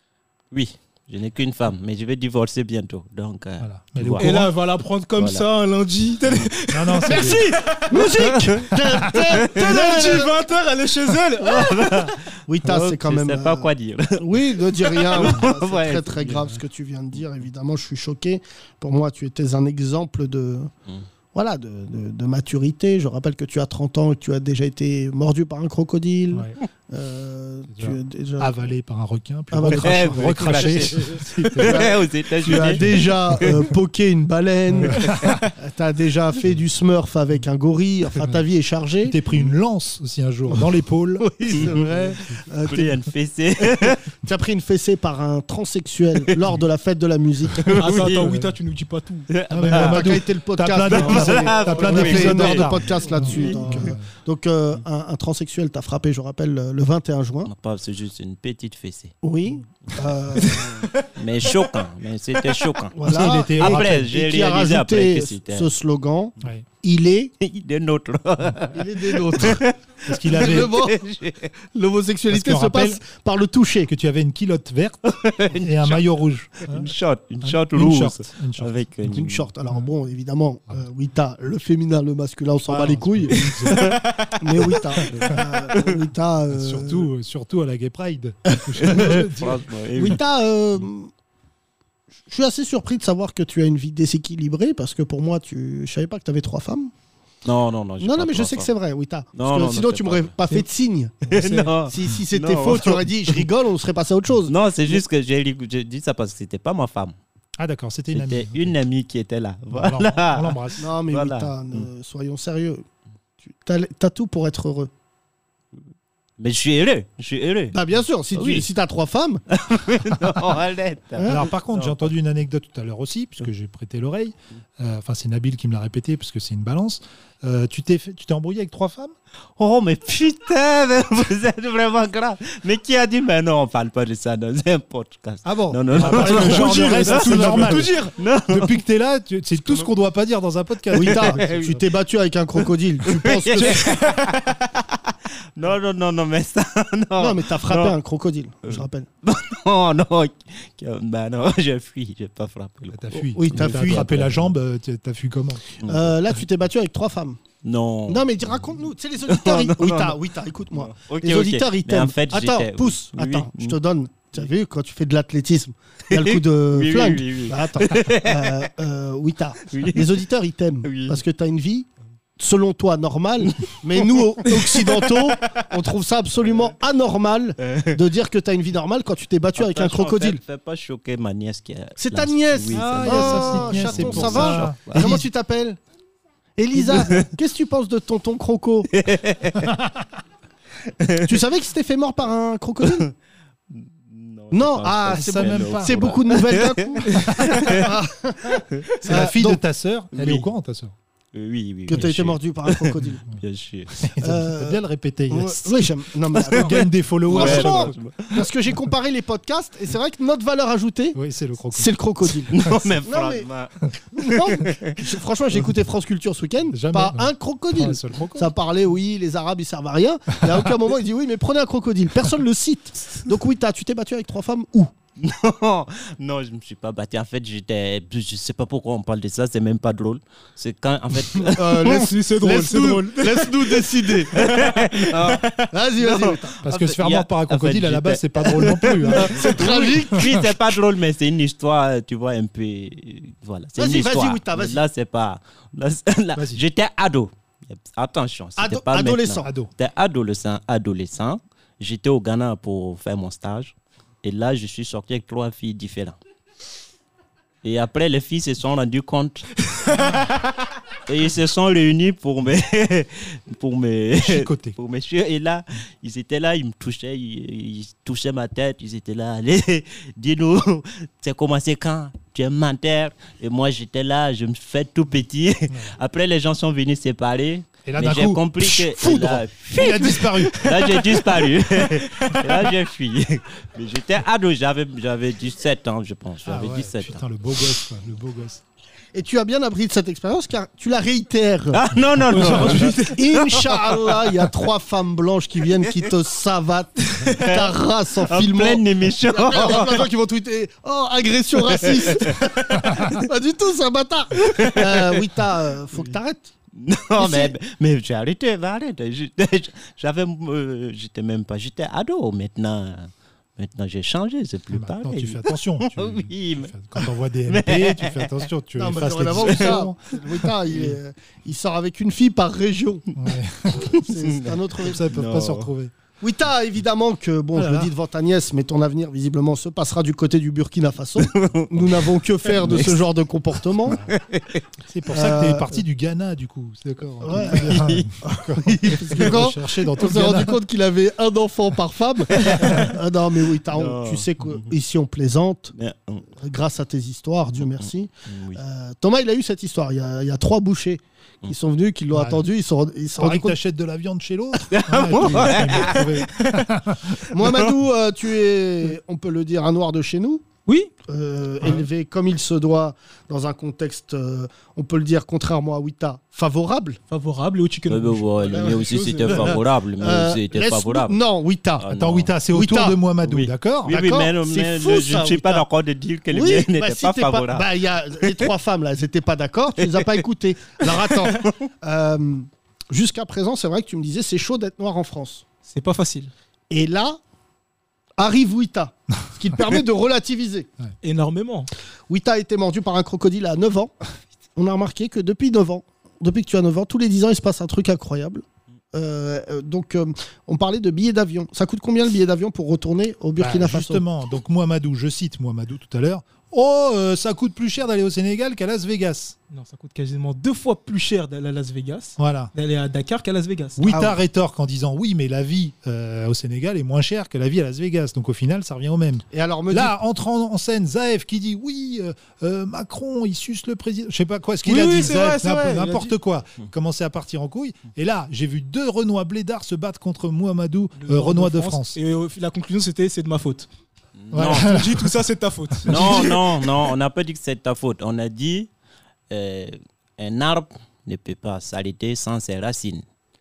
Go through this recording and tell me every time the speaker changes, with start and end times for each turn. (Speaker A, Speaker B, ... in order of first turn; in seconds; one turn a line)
Speaker A: 0.5-4.5
Speaker B: 3.6-4.5
Speaker C: 4.2-8.2
Speaker A: 5.2-5.5
Speaker B: 6.7-7.4
Speaker D: 7.1-10.3
Speaker A: 8.0-8.6
Speaker A: 9.3-10.0
Speaker C: 9.5-12.2
Speaker A: 11.4-16.5
Speaker D: 12.5-20.7
Speaker D: 21.3-28.5
Speaker B: 26.3-26.6
Speaker B: 27.7-31.9
Speaker D: 29.5-30.7
Speaker A: 29.7-33.6
Speaker D: 31.6-39.2
Speaker B: 32.5-33.5
Speaker B: 34.7-35.5
Speaker B: 39.0-42.4
Speaker D: 41.2-42.9
Speaker A: 42.7-44.0
Speaker D: 43.7-47.8
Speaker A: 47.6-48.3
Speaker C: 47.8-49.3
Speaker B: 48.2-48.5
Speaker A: 49.3-50.2
Speaker B: 49.5-54.0
Speaker D: 49.7-57.5
Speaker A: 50.9-54.0
Speaker C: 51.6-52.2
Speaker A: 57.5-59.1
Speaker D: 59.2-60.9
Speaker C: 60.4-61.6
Speaker A: 61.2-65.7
Speaker D: 62.9-67.3
Speaker B: 63.0-64.1
Speaker A: 67.4-71.5
Speaker D: 68.7-69.6
Speaker B: 70.0-70.7
Speaker D: 70.3-71.0
Speaker D: 71.7-73.9
Speaker B: 72.3-73.0
Speaker B: 73.9-79.2
Speaker A: 75.0-79.5
Speaker D: 79.1-87.1
Speaker B: 82.7-84.0
Speaker A: 83.7-84.4
Speaker A: 85.0-85.9
Speaker B: 85.1-85.4
Speaker B: 86.5-90.1
Speaker D: 88.5-89.2
Speaker A: 88.8-90.2
Speaker D: 90.0-91.1
Speaker D: 92.3-96.9
Speaker A: 97.4-98.7
Speaker D: 98.0-105.0
Speaker A: 99.3-100.3
Speaker B: 101.3-101.7
Speaker A: 101.3-103.4
Speaker A: 104.5-107.1
Speaker B: 107.6-108.8
Speaker A: 108.1-111.8
Speaker B: 109.7-110.8
Speaker D: 110.8-112.8
Speaker D: 113.6-114.9
Speaker A: 116.4-117.7
Speaker D: 117.7-119.4
Speaker A: 118.3-118.7
Speaker A: 119.5-122.1
Speaker D: 121.2-121.5
Speaker B: 121.2-129.1
Speaker A: 129.6-138.8
Speaker B: 135.4-137.9
Speaker C: 136.0-138.1
Speaker D: 136.2-136.5
Speaker B: 138.5-141.8
Speaker D: 140.9-143.9
Speaker A: 140.9-141.8
Speaker A: 143.1-148.0
Speaker D: 147.2-149.1
Speaker A: 148.7-154.4
Speaker B: 152.9-155.6
Speaker D: 153.1-154.3
Speaker A: 155.8-156.1
Speaker D: 155.8-157.4
Speaker A: 157.6-158.3
Speaker D: 158.1-180.4
Speaker A: 159.3-160.2
Speaker A: 160.7-163.8
Speaker A: 166.1-168.7
Speaker A: 169.7-170.2
Speaker A: 170.8-171.2
Speaker A: 173.9-175.6
Speaker A: 177.6-178.0
Speaker A: 179.6-185.2
Speaker D: 182.0-185.8
Speaker B: 182.7-185.2
Speaker D: 186.6-188.9
Speaker A: 186.7-187.3
Speaker A: 188.9-189.7
Speaker A: 191.0-191.2
Speaker D: 191.2-193.1
Speaker A: 192.8-193.1
Speaker A: 193.7-197.9
Speaker D: 194.5-199.6
Speaker B: 195.1-196.1
Speaker B: 197.3-197.7
Speaker B: 199.0-200.9
Speaker A: 200.1-200.5
Speaker A: 201.3-203.9
Speaker D: 201.9-203.2
Speaker B: 203.9-205.9
Speaker D: 204.2-211.2
Speaker B: 206.4-207.9
Speaker A: 206.5-208.4
Speaker B: 211.1-211.9
Speaker D: 211.7-213.5
Speaker A: 212.5-214.9
Speaker D: 214.1-224.9
Speaker B: 216.7-218.5
Speaker A: 225.2-232.0
Speaker D: 231.4-234.4
Speaker C: 231.8-233.8
Speaker A: 234.3-256.1
Speaker D: 235.7-236.5
Speaker B: 236.6-240.5
Speaker D: 239.1-240.4
Speaker D: 243.8-244.8
Speaker B: 246.3-246.6
Speaker D: 248.6-249.5
Speaker B: 249.4-249.7
Speaker A: 257.6-260.3
Speaker A: 261.1-287.2
Speaker B: 264.2-264.8
Speaker B: 275.7-275.9
Speaker B: 277.8-281.3
Speaker B: 286.4-288.6
Speaker D: 289.1-291.8
Speaker A: 291.7-294.3
Speaker C: 292.3-293.2
Speaker B: 292.4-292.8
Speaker D: 293.0-306.5
Speaker A: 297.2-300.1
Speaker A: 301.7-302.8
Speaker A: 304.4-305.2
Speaker A: 306.7-318.5
Speaker D: 307.2-307.5
Speaker B: 314.7-320.8
Speaker D: 318.8-323.1
Speaker A: 319.4-319.8
Speaker B: 323.1-323.9
Speaker D: 323.8-325.1
Speaker A: 324.0-325.7
Speaker B: 324.8-325.9
Speaker D: 326.2-334.0
Speaker B: 327.5-327.9
Speaker A: 331.2-333.1
Speaker B: 333.9-334.1
Speaker A: 333.9-334.6
Speaker B: 334.9-340.6
Speaker D: 335.1-335.8
Speaker D: 337.2-337.9
Speaker A: 337.4-338.2
Speaker D: 338.6-345.7
Speaker A: 338.8-339.3
Speaker A: 342.3-342.8
Speaker A: 343.7-344.7
Speaker A: 345.8-346.2
Speaker D: 346.4-353.6
Speaker A: 348.3-348.6
Speaker B: 352.1-352.4
Speaker B: 353.2-357.2
Speaker A: 354.7-356.6
Speaker D: 357.3-360.4
Speaker A: 357.4-357.7
Speaker C: 360.6-360.9
Speaker D: 361.1-367.0
Speaker C: 367.1-369.6
Speaker A: 367.9-371.2
Speaker D: 369.3-371.9
Speaker A: 371.8-372.3
Speaker B: 371.9-374.0
Speaker D: 372.5-373.0
Speaker A: 373.2-377.7
Speaker D: 373.9-375.6
Speaker D: 376.3-385.4
Speaker A: 379.8-380.1
Speaker A: 381.2-381.5
Speaker C: 385.7-386.3
Speaker D: 386.7-387.2
Speaker D: 388.2-390.7
Speaker C: 391.0-391.7
Speaker D: 392.1-393.9
Speaker D: 394.6-404.0
Speaker B: 403.4-409.4
Speaker C: 409.5-414.0
Speaker B: 412.2-412.5
Speaker B: 413.8-432.0
Speaker D: 413.9-414.1
Speaker D: 419.3-419.9
Speaker C: 424.6-426.1
Speaker C: 431.0-433.7
Speaker A: 434.2-434.8
Speaker B: 434.3-435.1
Speaker C: 434.4-436.4
Speaker B: 435.8-436.2
Speaker A: 435.9-438.7
Speaker A: 439.3-443.0